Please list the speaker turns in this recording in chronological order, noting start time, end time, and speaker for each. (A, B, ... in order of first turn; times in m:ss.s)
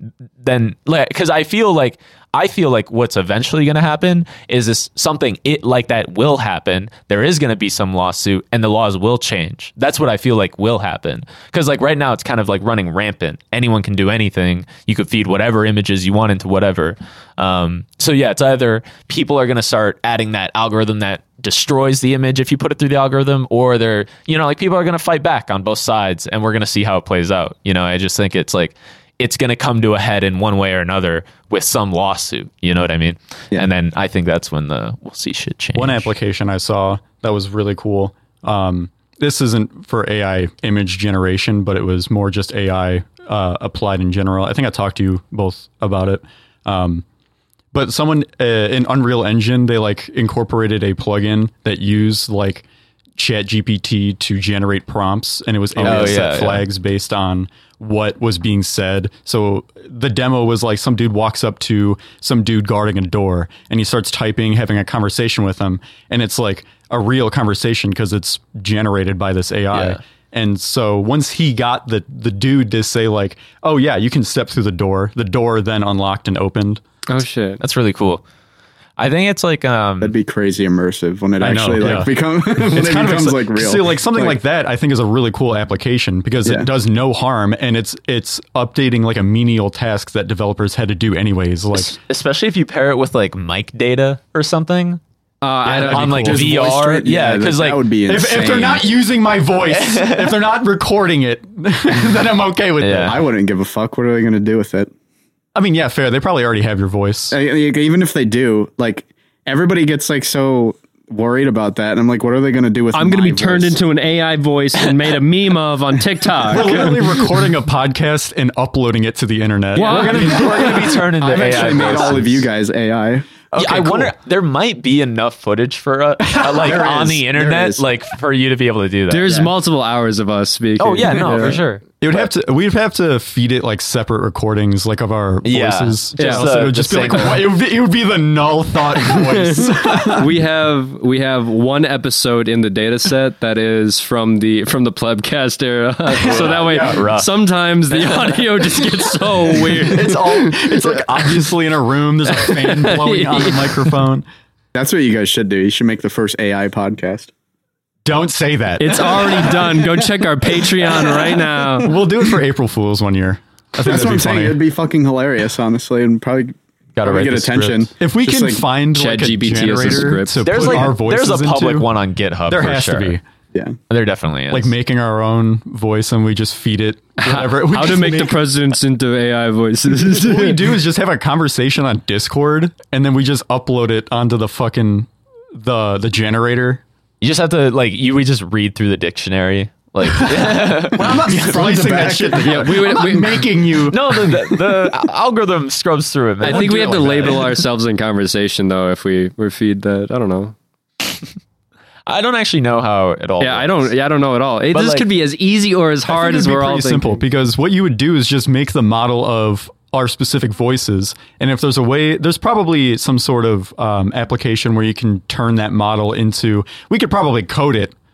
0:00.4-0:36.1 A
0:35.8-0:47.0 B
0:47.7-0:52.7 B
0:53.2-1:16.8 B
0:55.8-0:56.6 A
1:09.7-1:10.0 A
1:17.1-1:17.6 C
1:17.6-1:18.2 A
1:19.0-1:20.2 A
1:20.0-1:24.4 D
1:21.4-1:32.0 B
1:31.8-1:35.0 A
1:35.4-1:36.1 C
1:35.6-1:36.5 B
1:35.9-1:38.8 A
1:36.1-1:38.8 D
1:38.1-1:43.2 B
1:39.7-1:40.3 A
1:42.8-1:43.2 A
1:43.0-1:44.9 D
1:45.6-1:47.4 B
1:47.3-1:53.8 D
1:52.9-1:57.4 C
1:56.5-2:02.4 B
1:59.8-2:00.9 C
1:59.8-2:02.5 A
2:00.2-2:04.1 D
2:03.5-2:09.5 A
2:06.2-2:07.1 B
2:06.6-2:07.9 D
2:09.1-2:11.6 C
2:10.8-2:11.8 A
2:12.0-2:20.3 B
2:15.4-2:17.5 A
2:16.2-2:16.5 C
2:19.0-2:31.5 C
2:26.2-2:27.1 B
2:26.2-2:27.3 A
2:27.9-2:28.4 A
2:29.5-2:34.3 B
2:32.3-2:34.0 C
2:34.7-2:37.3 D
2:38.0-2:39.7 B
2:38.8-2:42.0 C
2:41.8-2:44.6 B
2:43.8-2:48.6 D
2:47.0-2:47.9 A
2:48.0-2:51.9 B
2:48.9-2:50.9 C
2:50.5-2:53.2 A
2:52.5-2:53.2 B
2:53.9-2:54.7 A
2:54.5-2:58.4 B
2:57.2-3:00.7 C
2:59.9-3:06.8 B
3:07.2-3:12.0 A
3:10.0-3:14.9 B
3:11.0-3:12.7 D
3:12.4-3:13.5 C
3:13.9-3:17.6 A
3:16.4-3:17.6 B
3:16.4-3:20.6 C
3:22.1-3:23.9 A
3:23.4-3:27.2 C
3:24.7-3:25.1 A
3:26.1-3:37.9 B